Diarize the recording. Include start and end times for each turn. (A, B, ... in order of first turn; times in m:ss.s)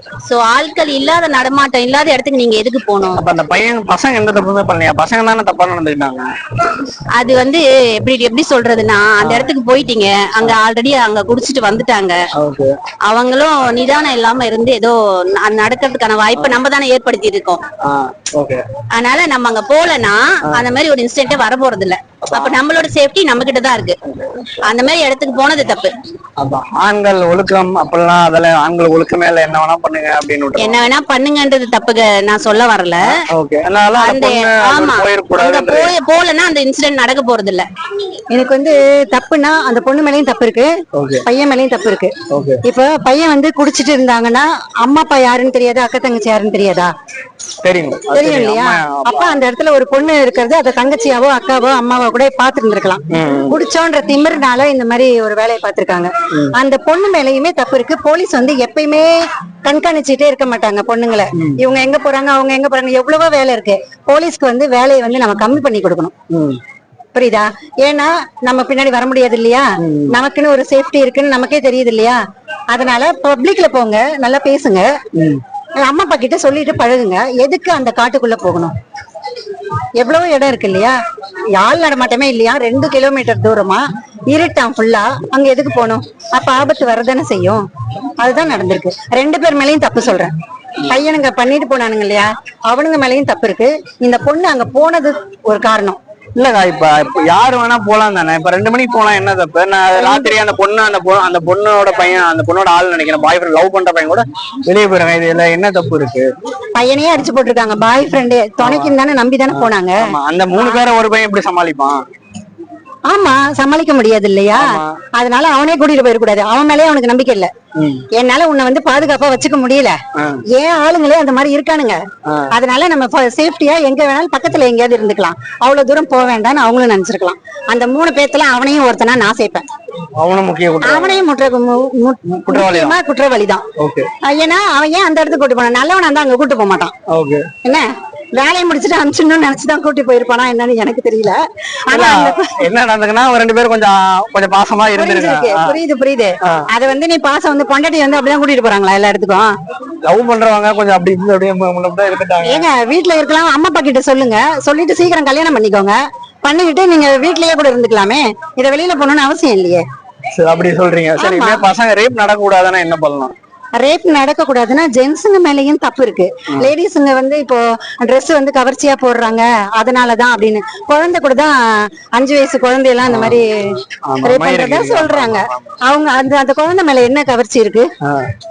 0:00.2-0:03.2 A
0:03.2-0:06.3 B
0:07.2-0:12.2 A
0:09.2-0:09.5 B
0:12.4-0:12.7 B
0:13.1-0:17.6 A
0:17.8-0:18.6 B
0:18.9-0:24.0 A
0:22.2-0:22.6 B
0:24.1-0:24.6 B
0:24.7-0:25.9 A
0:26.4-0:30.8 B
0:30.6-0:33.2 A
0:33.3-0:36.0 B
0:34.0-0:37.7 A
0:38.3-0:40.7 C
0:41.0-0:41.3 B
0:41.2-0:42.1 C
0:42.3-0:42.6 B
0:42.6-0:46.9 C
0:47.6-0:49.3 B
0:48.1-1:06.1 C
0:53.1-0:53.6 B
0:56.3-0:56.6 B
1:01.4-1:01.6 B
1:06.3-1:06.6 B
1:07.2-1:12.2 C
1:09.8-1:10.2 B
1:12.7-1:14.9 C
1:15.1-1:15.4 B
1:15.8-1:18.7 C
1:20.0-1:21.0 C
1:21.6-1:27.6 C
1:28.2-1:30.3 C
1:30.9-1:36.0 C
1:36.4-1:46.3 B
1:40.0-1:40.3 C
1:46.8-1:50.8 C
1:48.6-1:49.0 B
1:49.5-1:52.0 B
1:53.1-1:57.5 C
1:54.5-1:55.0 B
1:57.8-1:58.0 B
1:58.2-2:00.0 C
2:00.2-2:00.4 B
2:00.5-2:02.0 C
2:02.2-2:02.5 B
2:02.5-2:09.6 C
2:10.2-2:11.2 B
2:10.8-2:13.6 C
2:12.3-2:13.0 B
2:13.8-2:14.1 B
2:14.2-2:16.9 C
2:17.1-2:17.5 B
2:18.4-2:22.6 C
2:21.9-2:25.8 B
2:25.0-2:29.5 C
2:26.4-2:26.7 B
2:30.0-2:32.7 B
2:32.4-2:39.8 C
2:40.4-2:43.3 B
2:41.2-2:41.6 C
2:43.8-2:53.5 C
2:53.1-2:53.4 B
2:54.0-2:55.8 B
2:54.2-2:57.9 C
2:58.0-2:58.3 B